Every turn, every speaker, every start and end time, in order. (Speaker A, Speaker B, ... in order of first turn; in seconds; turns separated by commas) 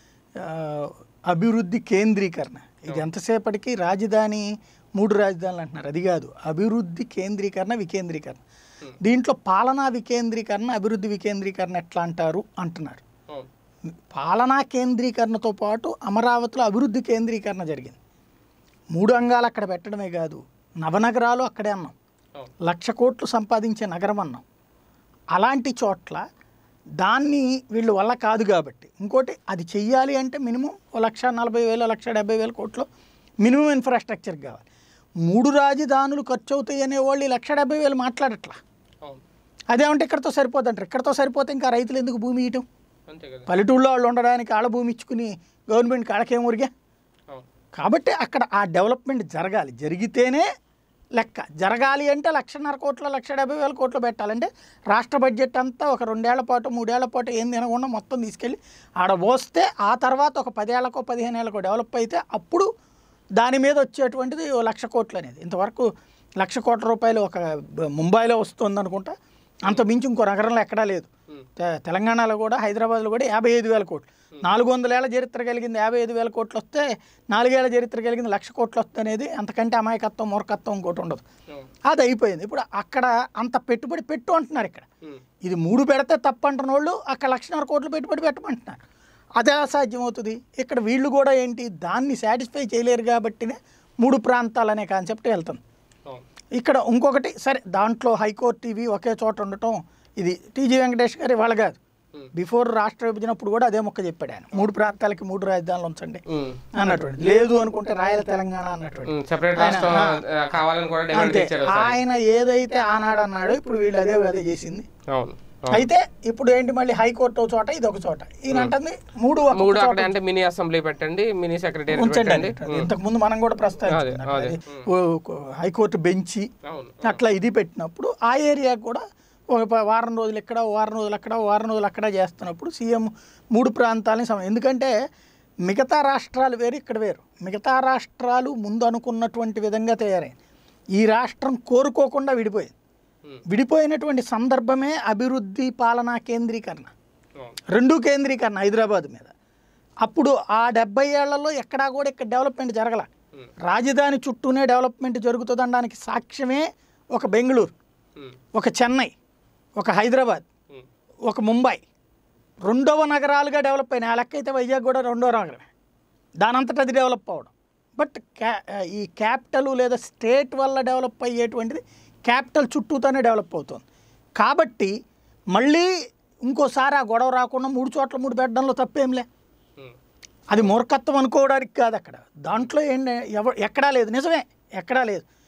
Speaker A: 0.4-8.4, Speaker A: 9.0-13.0, Speaker A: 14.1-18.0, Speaker A: 18.9-21.9, Speaker A: 22.6-24.4, Speaker A: 25.3-26.2, Speaker A: 27.0-32.9, Speaker A: 33.4-34.6, Speaker A: 35.2-38.6, Speaker A: 39.7-42.6, Speaker B: 43.1-43.5, Speaker A: 43.5-46.7, Speaker A: 47.8-50.4, Speaker A: 51.1-62.7, Speaker A: 63.4-65.9, Speaker A: 66.4-67.4, Speaker A: 67.9-69.1, Speaker A: 69.6-81.2, Speaker A: 81.9-84.8, Speaker A: 85.4-88.8, Speaker A: 89.4-95.6, Speaker A: 96.5-101.8, Speaker A: 102.3-106.2, Speaker B: 106.3-106.6, Speaker A: 106.7-110.2, Speaker B: 109.1-112.0, Speaker A: 111.1-114.8, Speaker B: 115.1-115.9, Speaker A: 115.7-120.1, Speaker B: 119.5-122.9, Speaker A: 121.9-126.5, Speaker B: 123.9-124.8, Speaker B: 126.7-127.2, Speaker A: 127.0-134.9, Speaker A: 135.7-140.3, Speaker A: 140.9-142.7, Speaker A: 143.5-146.9, Speaker A: 147.7-149.3, Speaker A: 150.0-153.1, Speaker A: 153.6-157.7, Speaker A: 158.5-159.1, Speaker A: 159.8-160.4, Speaker A: 161.3-161.8, Speaker A: 162.7-165.7, Speaker A: 166.4-173.8, Speaker A: 174.4-174.9, Speaker A: 175.5-175.9, Speaker A: 176.4-179.2, Speaker A: 180.5-185.2